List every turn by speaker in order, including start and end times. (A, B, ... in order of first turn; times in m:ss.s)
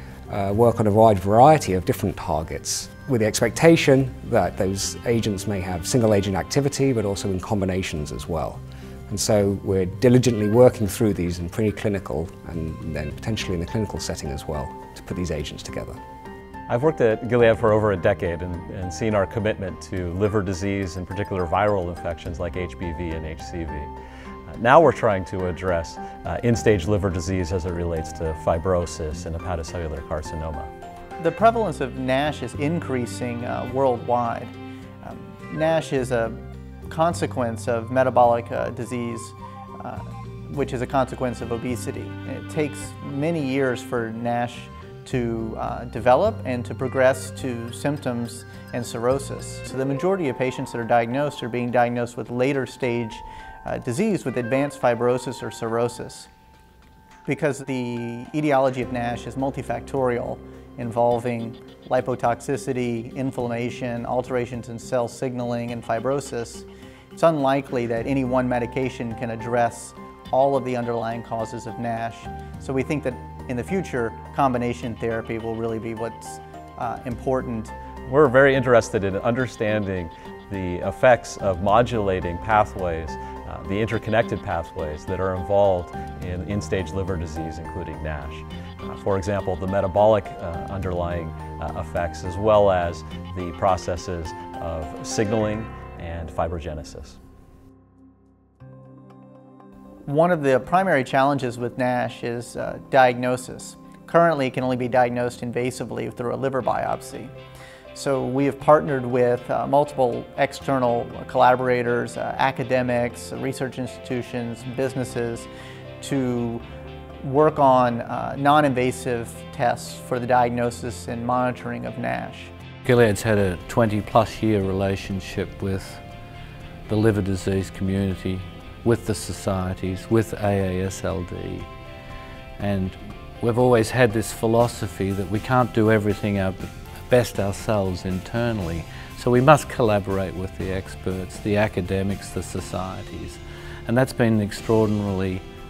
0:00.3-0:16.0 A
0:16.7-0:23.9 B
0:24.5-0:30.7 B
0:31.2-0:56.3 C
0:57.2-1:17.8 C
1:18.1-1:37.2 B
1:40.1-1:47.3 C
1:47.9-1:55.5 C
1:56.0-1:56.6 C
1:57.2-2:02.5 C
2:02.8-2:06.0 D
2:06.9-2:11.7 D
2:12.6-2:25.4 D